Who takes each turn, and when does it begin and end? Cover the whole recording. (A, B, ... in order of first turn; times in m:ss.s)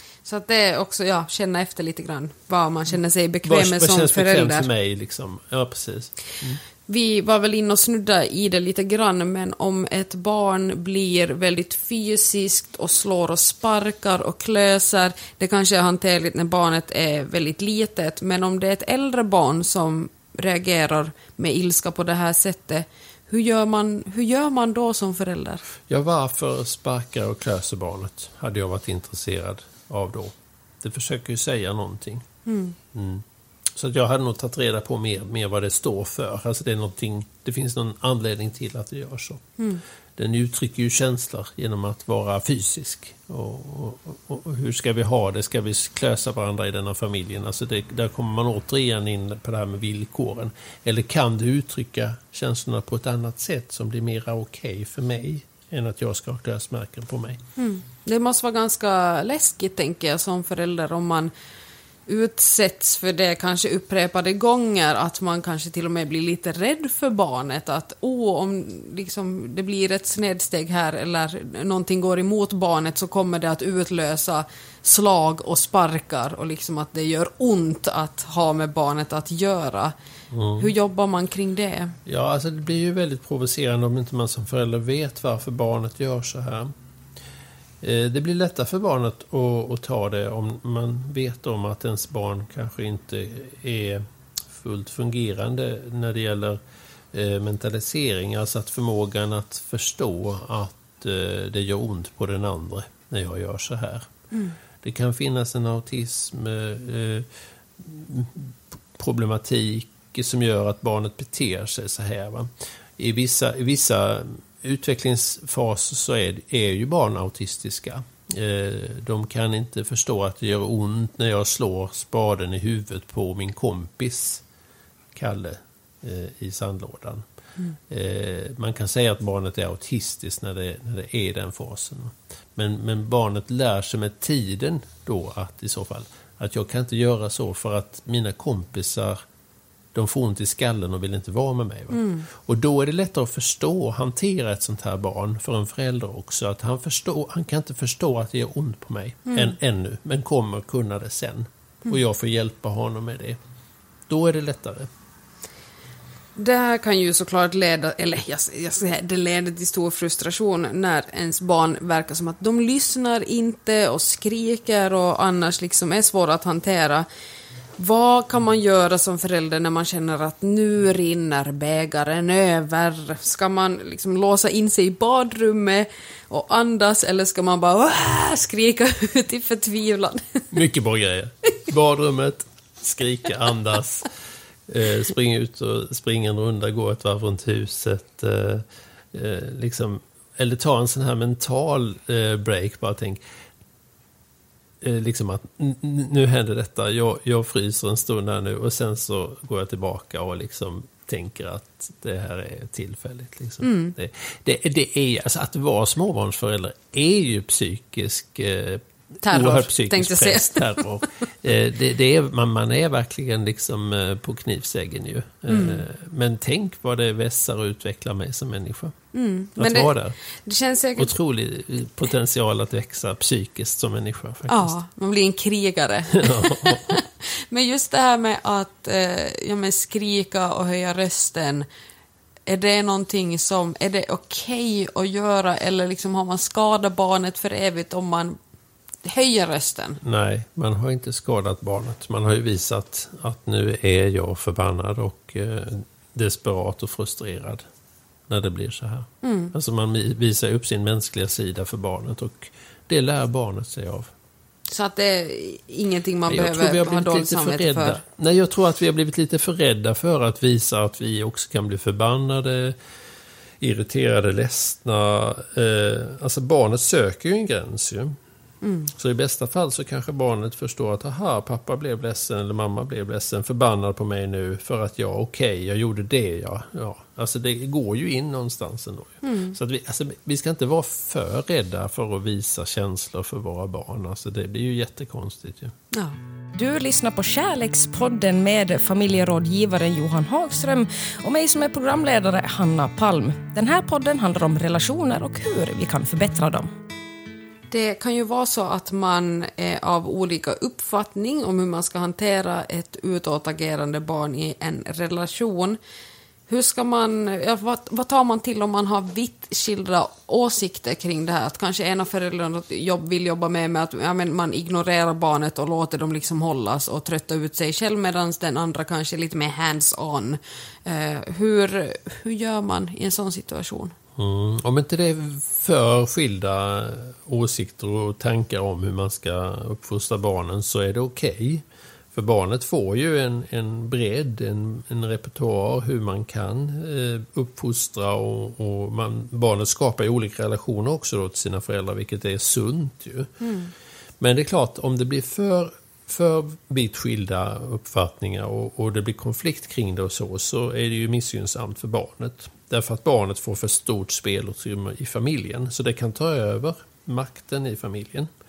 0:00.2-0:04.7 A
0:03.4-0:06.6 B
0:06.9-0:25.6 A
0:25.9-0:32.3 B
0:32.5-0:32.8 A
0:32.9-0:39.6 B
0:40.2-0:57.4 B
0:57.6-1:01.3 A
1:02.1-1:20.0 A
1:20.3-1:20.7 B
1:20.6-1:22.0 A
1:22.1-1:26.7 B
1:27.8-1:36.6 B
1:37.1-1:44.1 B
1:44.8-2:04.4 B
2:05.1-2:07.2 B
2:07.9-2:19.2 B
2:19.9-2:33.4 B
2:21.9-2:22.3 A
2:29.3-2:29.5 A
2:34.1-2:34.9 B
2:36.4-2:47.1 A
2:47.8-3:00.5 A
3:00.5-3:04.1 B
3:04.7-3:13.2 B
3:14.8-3:39.0 B
3:23.6-3:23.9 A
3:29.2-3:30.8 A
3:35.5-3:35.8 A
3:39.1-3:39.9 A
3:39.6-3:40.2 B
3:40.4-3:41.1 A
3:41.0-3:44.8 B
3:44.5-3:51.7 A
3:46.2-3:47.0 B
3:52.5-3:58.4 A
3:59.0-4:00.0 A
4:00.0-4:07.6 B
4:08.3-4:14.1 B
4:09.2-4:09.6 A
4:14.7-4:18.0 A
4:16.3-4:22.8 B
4:23.6-4:28.2 B
4:28.6-4:28.9 A
4:28.9-4:45.7 B
4:39.2-4:39.6 A
4:45.9-4:46.2 A
4:46.6-4:56.7 C
4:57.7-5:05.8 A
5:06.5-5:24.0 A
5:24.2-5:43.3 B
5:43.4-5:43.7 A
5:44.2-5:58.3 B